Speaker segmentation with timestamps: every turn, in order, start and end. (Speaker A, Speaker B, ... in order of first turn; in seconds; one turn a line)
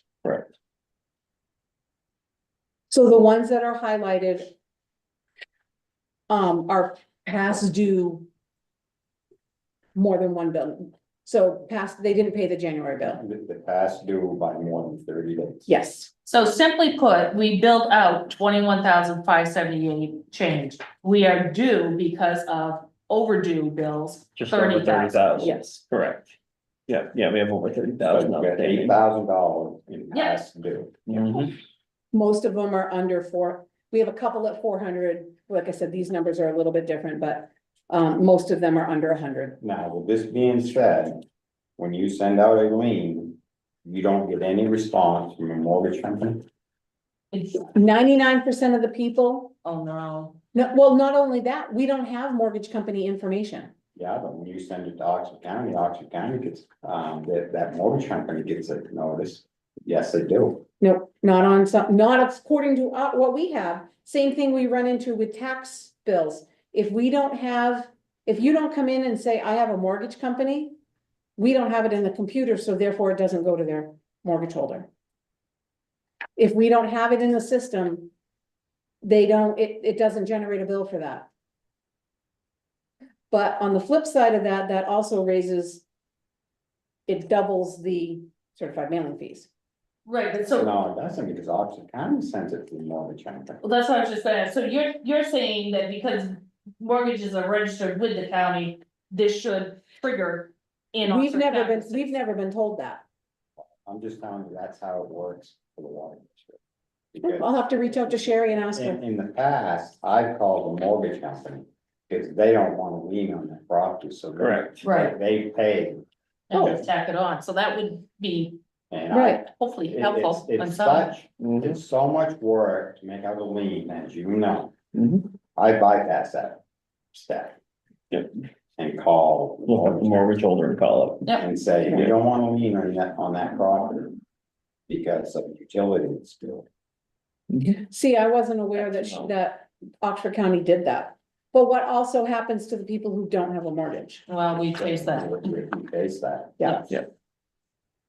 Speaker A: 0.2-0.5
Speaker B: 2.9-4.5
Speaker B: 6.3-8.3
Speaker B: 9.9-13.2
Speaker C: 13.2-15.7
Speaker B: 15.7-16.1
Speaker D: 16.2-25.7
Speaker A: 24.4-26.3
Speaker B: 25.4-25.8
Speaker A: 26.9-29.0
Speaker C: 28.1-31.4
Speaker A: 31.1-31.5
Speaker B: 32.1-39.6
Speaker C: 39.6-41.2
Speaker C: 41.8-46.4
Speaker D: 47.3-47.7
Speaker B: 47.6-49.5
Speaker D: 49.6-50.4
Speaker B: 50.5-53.7
Speaker C: 54.0-60.6
Speaker B: 60.8-70.8
Speaker B: 71.4-74.9
Speaker B: 76.3-78.1
Speaker B: 79.0-81.3
Speaker B: 83.3-85.8
Speaker B: 87.1-89.5
Speaker D: 90.0-90.7
Speaker C: 90.5-93.6
Speaker D: 93.6-102.2
Speaker B: 101.0-103.0
Speaker C: 103.8-106.6
Speaker C: 107.1-116.8
Speaker B: 107.2-109.0
Speaker A: 114.4-114.7
Speaker D: 114.8-115.2
Speaker D: 116.5-118.6
Speaker C: 118.9-124.7
Speaker B: 119.1-119.4
Speaker D: 119.2-121.1
Speaker A: 121.4-121.8
Speaker A: 124.9-125.3
Speaker C: 125.5-126.6
Speaker C: 127.1-127.6
Speaker A: 128.1-128.4
Speaker C: 128.8-130.3
Speaker A: 129.7-132.1
Speaker C: 131.3-134.2
Speaker C: 134.9-136.7
Speaker A: 137.5-137.8
Speaker B: 137.9-144.2
Speaker A: 138.9-139.3
Speaker D: 144.3-145.3
Speaker C: 144.8-146.8